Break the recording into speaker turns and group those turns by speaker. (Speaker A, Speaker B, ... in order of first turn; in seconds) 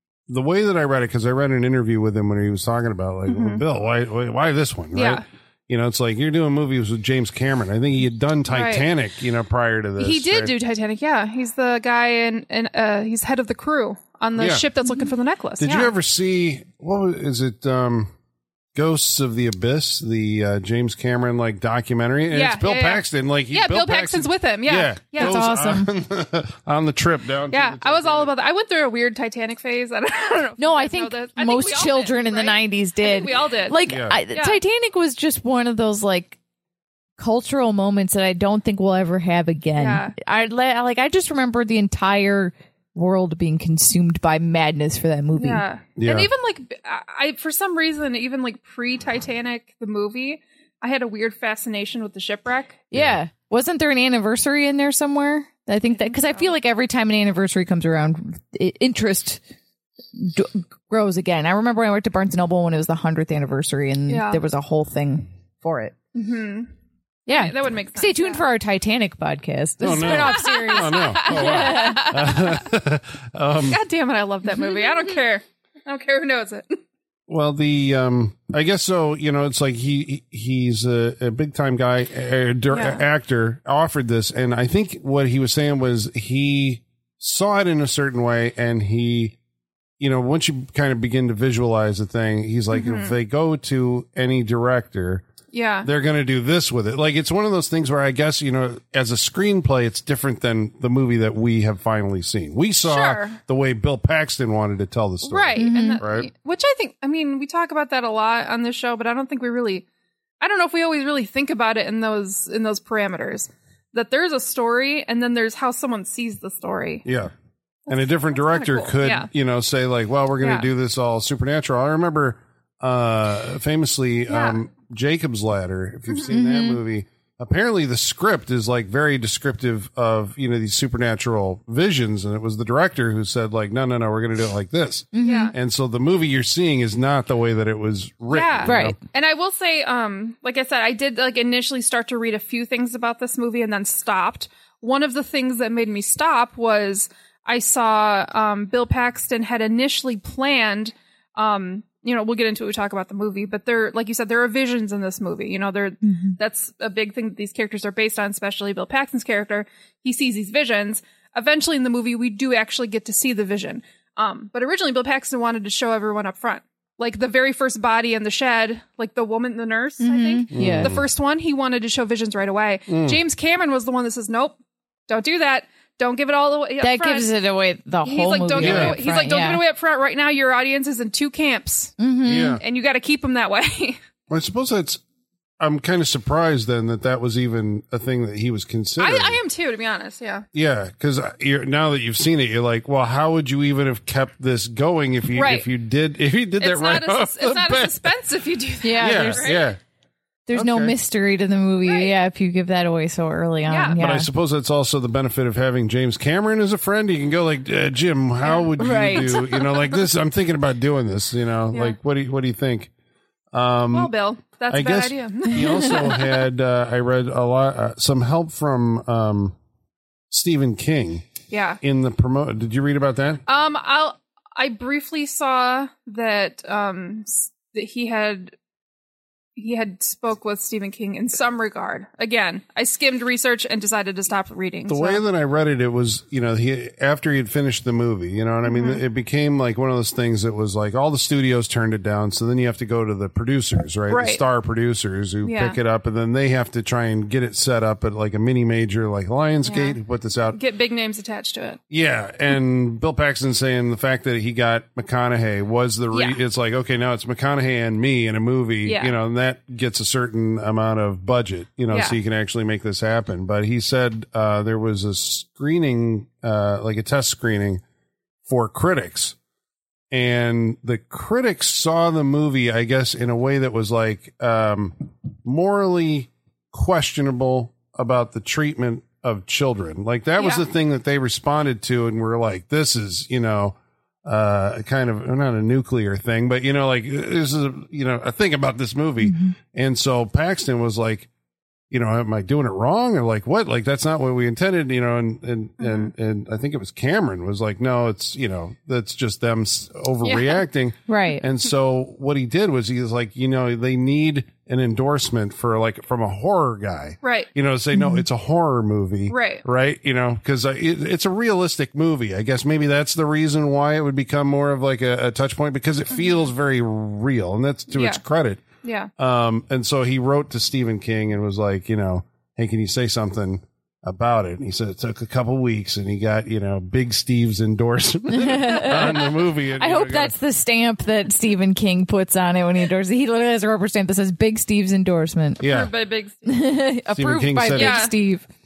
Speaker A: 0.3-10.5, 14.4-14.7, 15.6-18.1, 18.7-28.3, 33.9-34.2, 46.0-46.3, 69.8-73.8, 77.3-89.4, 90.0-95.2, 95.8-106.3, 117.0-117.3, 117.9-139.0, 170.5-171.0, 172.9-173.2, 178.6-179.0, 182.2-182.6, 184.3-185.0, 185.6-189.4, 190.5-198.1, 199.0-199.8, 200.5-200.9, 204.0-212.9, 213.5-214.1, 214.7-219.6, 220.3-221.3, 221.8-223.4, 234.9-250.6, 251.9-267.8, 268.5-269.4, 270.1-291.3, 291.9-318.6, 319.2-330.3, 335.6-335.9, 337.1-338.1
Speaker B: 3.3-3.6, 4.9-5.2, 8.5-8.8, 10.0-15.9, 22.3-25.3, 27.5-34.6, 39.8-40.1, 45.4-52.8, 55.9-56.5, 64.1-64.4, 66.1-66.7, 67.3-68.4, 70.3-72.6, 73.7-76.8, 82.7-83.0, 92.7-93.1, 95.5-95.9, 102.8-103.4, 105.2-109.8, 110.4-117.0, 117.9-119.3, 120.4-120.7, 124.3-124.6, 126.1-126.3, 135.2-135.5, 138.3-177.3, 178.0-181.9, 182.6-184.0, 189.0-190.4, 195.3-195.7, 196.6-199.7, 201.8-202.1, 203.7-204.0, 208.4-209.8, 213.9-216.4, 221.5-221.8, 223.5-228.5, 229.6-235.2, 238.6-239.0, 244.1-244.4, 245.4-245.8, 249.6-250.0, 250.5-251.8, 256.1-256.4, 258.8-259.1, 261.9-262.2, 280.4-280.6, 295.8-296.1, 300.2-300.6, 307.2-307.5, 309.3-309.6, 317.9-318.2, 318.8-319.1, 335.6-336.6, 337.7-338.1
Speaker C: 25.2-25.9, 30.6-36.4, 37.2-45.6, 52.9-59.4, 60.1-65.9, 67.3-72.2, 105.6-106.0, 126.3-126.8, 135.1-135.5, 138.6-138.9, 156.1-156.4, 170.0-170.9, 176.8-179.6, 182.0-182.6, 198.8-199.5, 200.5-204.3, 208.8-209.3, 289.2-289.5, 301.1-301.4, 307.9-308.2, 328.3-335.6, 336.4-338.4